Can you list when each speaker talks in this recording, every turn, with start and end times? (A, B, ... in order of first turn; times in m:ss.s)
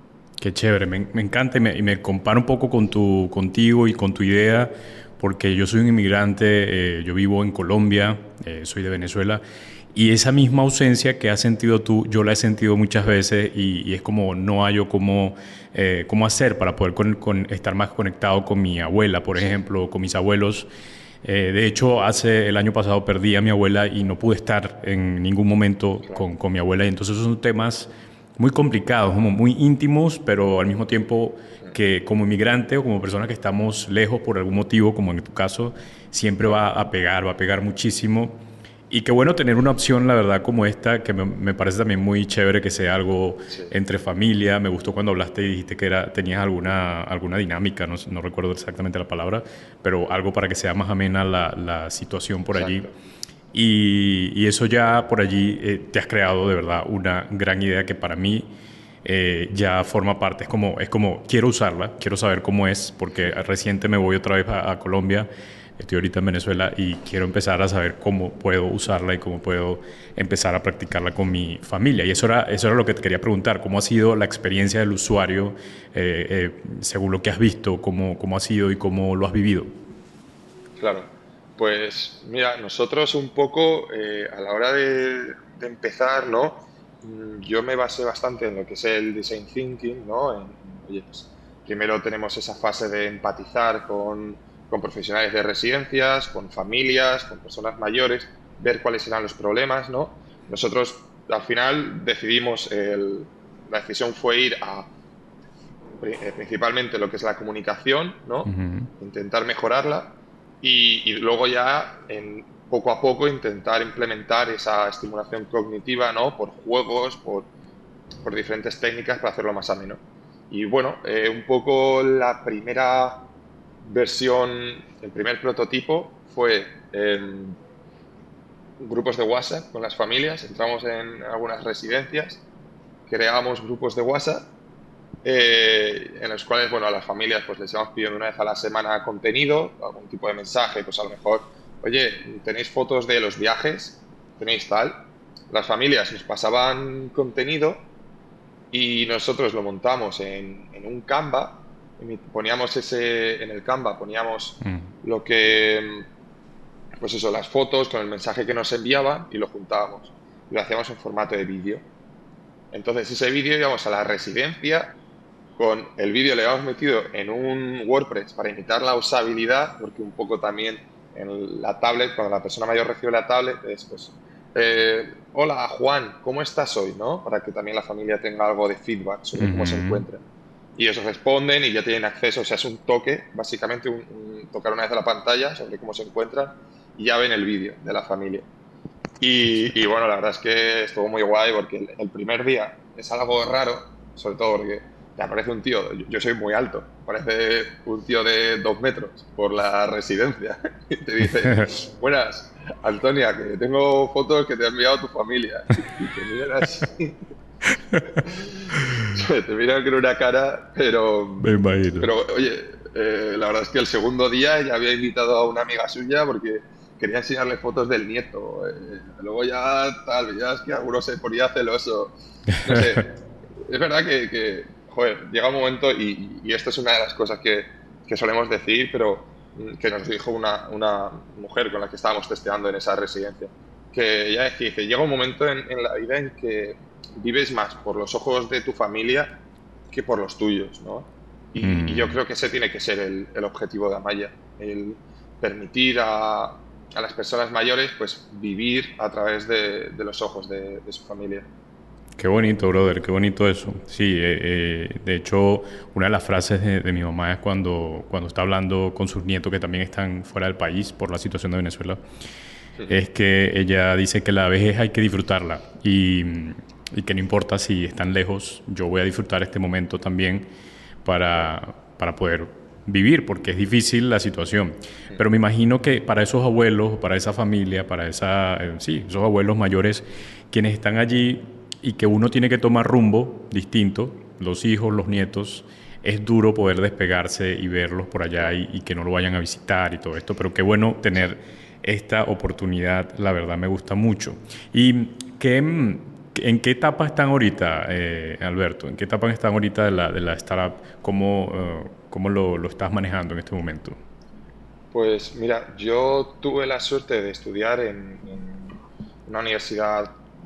0:00.4-0:09.4 A
0:09.9-0:20.7 A
0:21.2-0:38.4 A
0:38.9-0:52.9 A
0:52.5-0:53.0 B
0:53.5-0:58.5 A
0:59.0-1:19.7 A
1:20.8-1:44.9 B
1:46.0-1:57.5 B
1:48.5-1:48.9 A
1:58.2-2:03.3 B
2:03.8-2:07.6 B
2:08.8-2:12.4 B
2:13.1-2:14.5 B
2:15.2-2:27.8 B
2:28.7-2:36.1 B
2:37.0-2:41.8 B
2:42.7-2:44.9 B
2:45.6-3:00.2 B
2:59.4-3:00.0 A
3:00.8-3:08.5 B
3:09.2-3:27.2 B
3:28.2-3:59.4 B
3:31.4-3:32.1 A
3:59.9-4:11.5 B
4:01.6-4:02.2 A
4:12.2-4:22.0 A
4:22.9-4:30.5 A
4:31.0-5:04.0 A
5:04.9-5:10.2 B